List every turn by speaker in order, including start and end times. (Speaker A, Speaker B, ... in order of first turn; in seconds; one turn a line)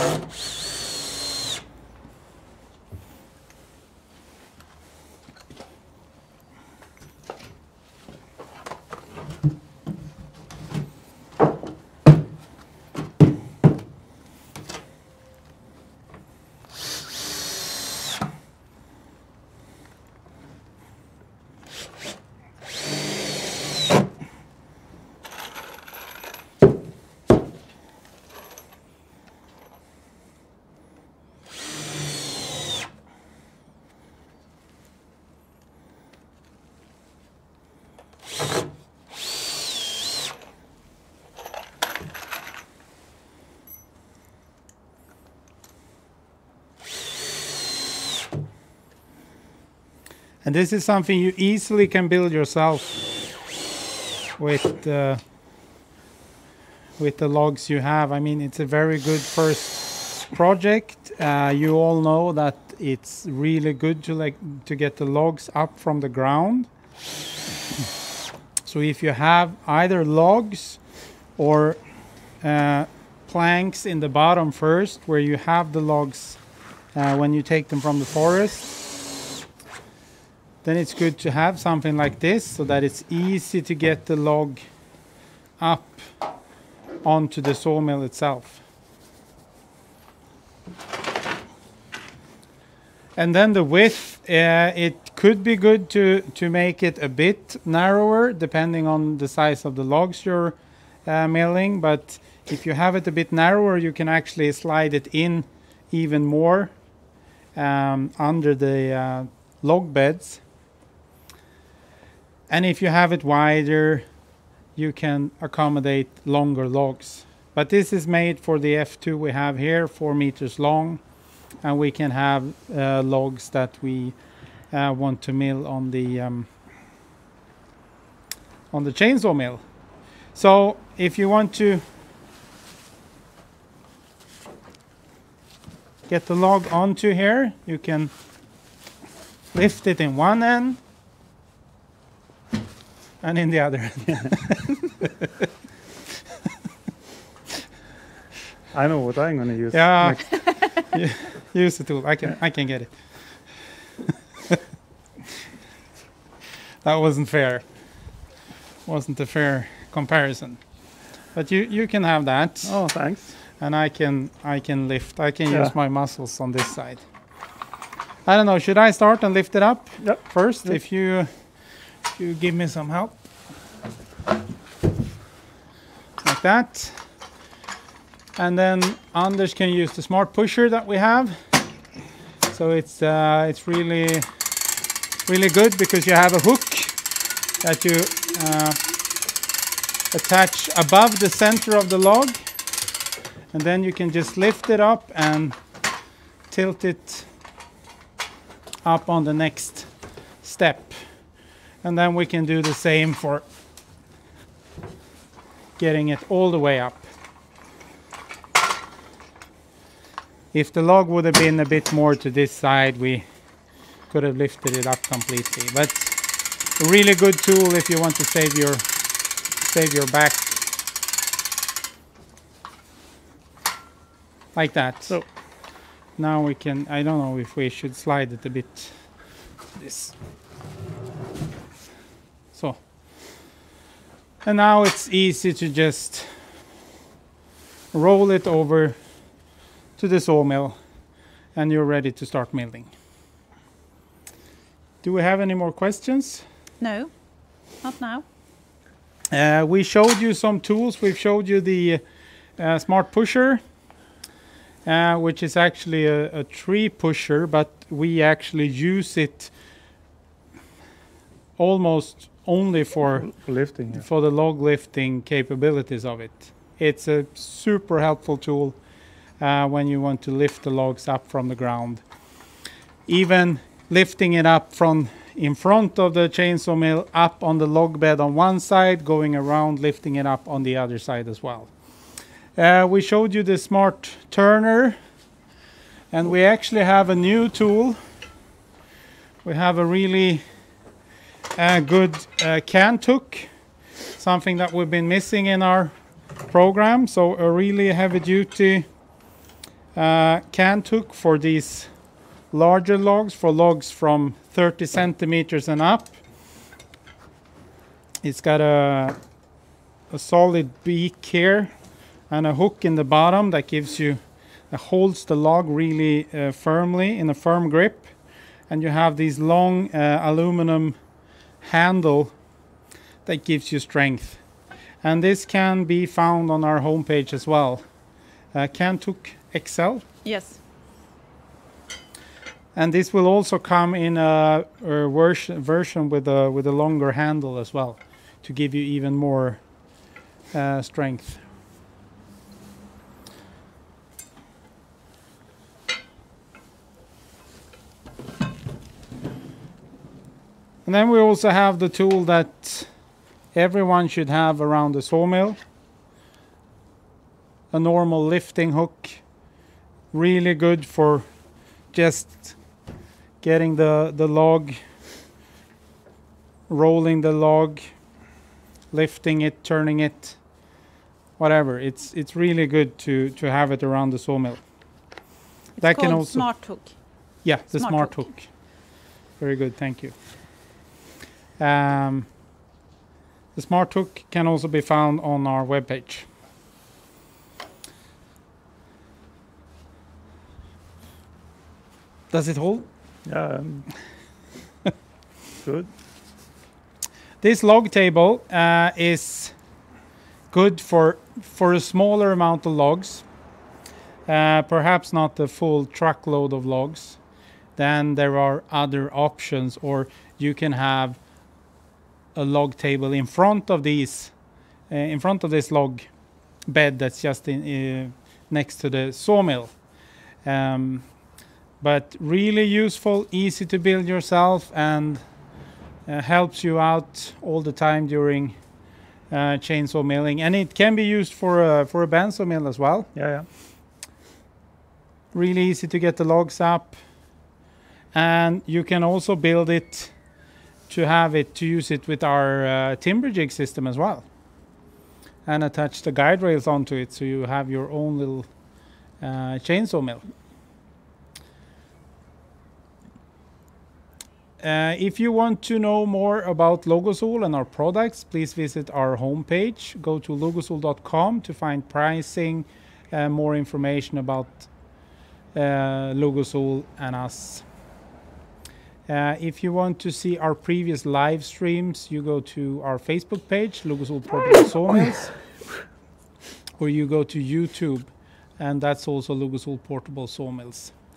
Speaker A: 50.4-53.1
Speaker A: 54.4-55.2
Speaker A: 57.0-66.7
Speaker A: 68.6-70.8
Speaker A: 71.4-71.8
Speaker A: 72.4-76.4
Speaker A: 76.9-78.8
Speaker A: 80.6-84.6
Speaker A: 85.6-86.1
Speaker A: 87.0-88.6
Speaker A: 93.2-106.7
Speaker A: 107.5-110.4
Speaker A: 112.5-114.0
Speaker A: 114.8-121.0
Speaker A: 121.6-124.2
Speaker A: 124.7-126.5
Speaker A: 128.7-129.6
Speaker A: 130.3-131.8
Speaker A: 136.1-138.1
Speaker A: 139.5-140.8
Speaker A: 143.2-145.0
Speaker B: 148.7-150.4
Speaker A: 149.7-153.7
Speaker A: 156.8-157.6
Speaker A: 158.8-160.6
Speaker A: 161.3-162.9
Speaker B: 162.6-163.4
Speaker A: 163.5-167.0
Speaker B: 165.5-165.7
Speaker A: 168.2-171.3
Speaker B: 170.0-170.8
Speaker A: 172.1-173.2
Speaker A: 176.2-177.0
Speaker A: 178.3-181.4
Speaker A: 182.5-184.2
Speaker A: 185.2-186.9
Speaker A: 187.6-188.8
Speaker A: 190.1-192.4
Speaker A: 193.5-195.6
Speaker A: 196.5-197.3
Speaker A: 198.8-203.4
Speaker A: 205.8-207.1
Speaker A: 210.5-213.2
Speaker A: 214.1-216.2
Speaker A: 216.8-218.8
Speaker A: 219.6-220.6
Speaker A: 224.5-225.3
Speaker A: 226.2-229.2
Speaker A: 229.7-230.1
Speaker A: 232.5-232.8
Speaker A: 234.4-236.3
Speaker A: 237.9-239.0
Speaker A: 240.0-240.8
Speaker A: 241.5-242.9
Speaker A: 245.0-246.4
Speaker C: 246.8-247.1
Speaker C: 247.8-248.2
Speaker A: 249.3-252.0
Speaker A: 252.6-253.6
Speaker A: 254.8-259.5
Speaker A: 261.6-268.8
Speaker B: 263.1-264.1
Speaker A: 269.4-272.0
Speaker A: 273.1-281.7
Speaker A: 282.6-285.0
Speaker A: 286.1-288.0
Speaker A: 289.4-290.4
Speaker A: 291.6-293.5
Speaker A: 294.1-295.9
Speaker A: 296.4-298.9
Speaker A: 299.9-301.9
Speaker A: 302.5-306.2
Speaker A: 308.2-309.2
Speaker A: 310.1-311.7
Speaker A: 312.3-318.1
Speaker A: 318.7-321.0
Speaker A: 321.6-322.3
Speaker A: 323.2-324.4
Speaker A: 325.0-327.8
Speaker A: 328.5-330.0
Speaker C: 330.2-330.6
Speaker A: 332.7-339.6
Speaker A: 340.5-341.4
Speaker A: 350.8-352.9
Speaker A: 353.5-355.6
Speaker A: 357.7-359.2
Speaker A: 360.1-361.2
Speaker A: 361.9-362.6
Speaker A: 363.4-364.8
Speaker A: 366.7-367.9
Speaker A: 368.9-370.4
Speaker A: 371.4-374.6
Speaker C: 375.8-377.0
Speaker A: 375.8-376.5
Speaker A: 377.4-380.1
Speaker C: 377.7-378.3
Speaker A: 381.6-382.3
Speaker A: 383.5-386.3
Speaker A: 392.3-392.9
Speaker B: 393.2-393.9
Speaker B: 395.6-395.9
Speaker A: 397.4-399.5
Speaker A: 400.5-403.2
Speaker A: 404.3-407.2
Speaker A: 407.8-411.2
Speaker A: 412.3-414.3
Speaker A: 414.9-416.1
Speaker A: 416.7-419.8
Speaker A: 420.4-421.1
Speaker A: 421.8-425.2
Speaker A: 426.1-428.6
Speaker A: 429.3-433.1
Speaker B: 433.1-433.5
Speaker A: 435.3-437.0
Speaker A: 438.1-440.1
Speaker A: 440.9-444.2
Speaker A: 445.4-448.5
Speaker A: 449.2-450.2
Speaker A: 454.6-464.7
Speaker A: 465.5-467.7
Speaker A: 469.1-475.4
Speaker A: 476.8-480.9